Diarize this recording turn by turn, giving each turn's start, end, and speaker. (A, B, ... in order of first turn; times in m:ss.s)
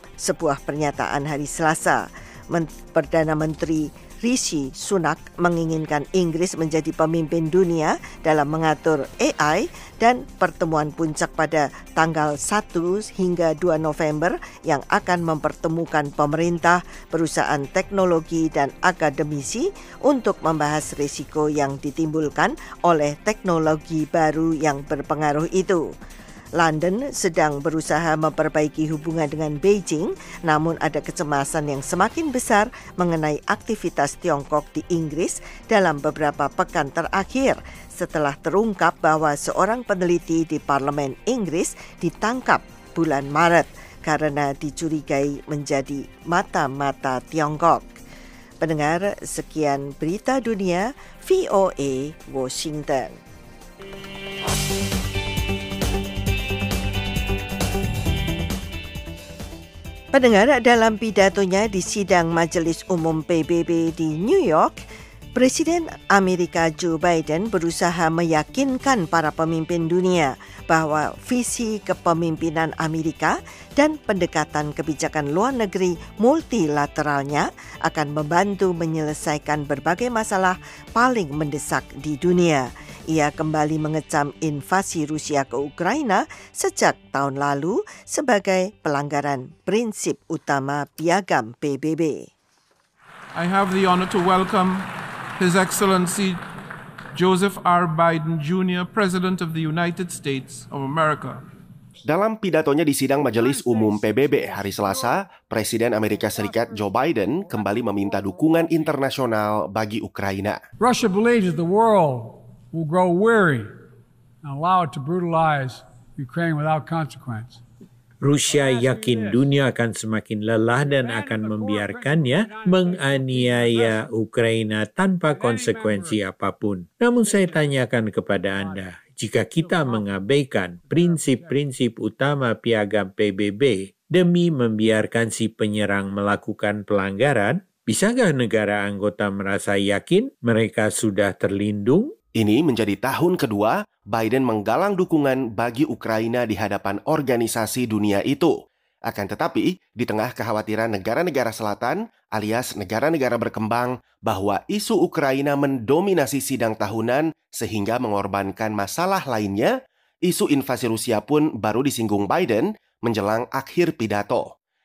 0:00.2-0:25.8 A
0:26.6-0:47.9 A
0:48.6-0:53.2 A
1:00.1-1:04.8 A
1:05.3-1:32.3 A
1:33.3-1:36.4 B
1:37.1-1:41.4 B
1:42.0-1:50.6 C
1:50.8-1:53.7 D
1:54.4-1:57.6 D
1:58.2-2:22.1 E
1:58.5-1:59.5 D
2:00.9-2:04.0 D
2:05.3-2:06.2 D
2:07.2-2:07.7 D
2:09.6-2:10.1 D
2:10.8-2:11.6 D
2:22.3-2:44.5 C